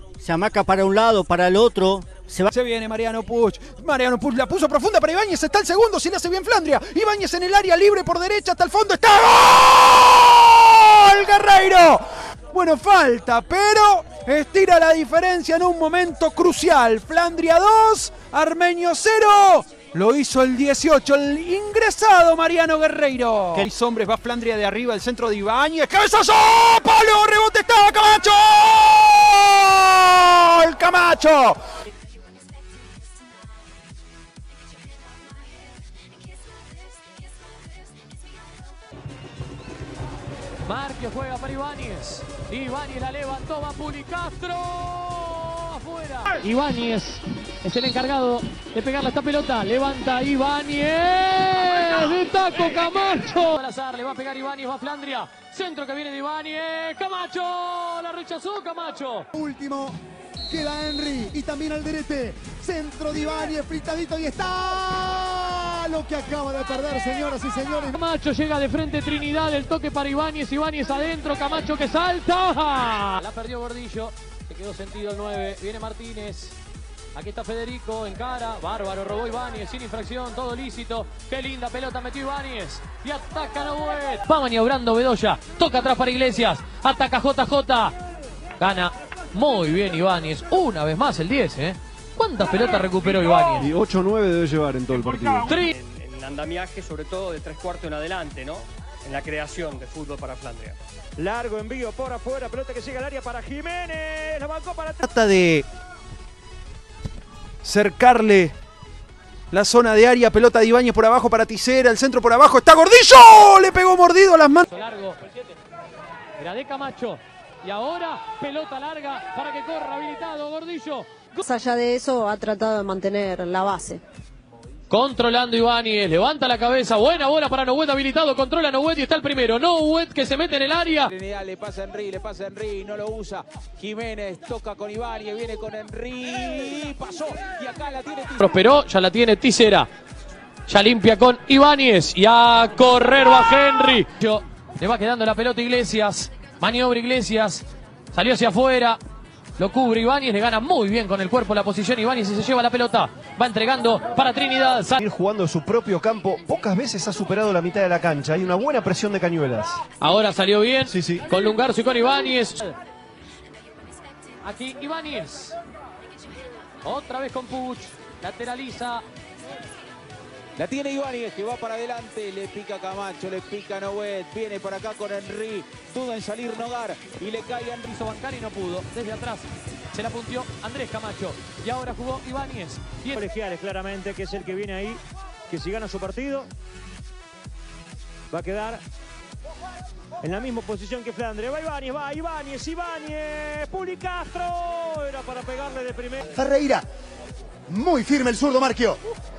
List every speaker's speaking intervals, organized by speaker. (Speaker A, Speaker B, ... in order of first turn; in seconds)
Speaker A: 0.2-2.5
Speaker B: 2.5-31.6, 105.0-105.6, 107.6-108.5, 109.5-114.6
Speaker C: 40.6-59.3, 67.9-76.6, 77.1-87.9, 88.6-93.7, 95.4-95.7, 114.7-115.3, 116.4-121.4, 124.9-131.1, 138.4-139.9, 140.7-149.0, 149.6-155.0, 160.0-162.8, 164.4-165.5, 166.8-169.0, 177.8-183.2
Speaker D: 59.3-68.0, 196.3-196.8, 197.7-199.0
Speaker E: 93.6-95.5, 155.0-159.8, 160.9-161.2
Speaker F: 95.7-100.8
Speaker G: 101.2-105.0, 183.2-186.5, 188.3-188.8, 190.2-196.2
Speaker H: 121.4-124.0
Speaker I: 131.1-138.5, 170.6-177.9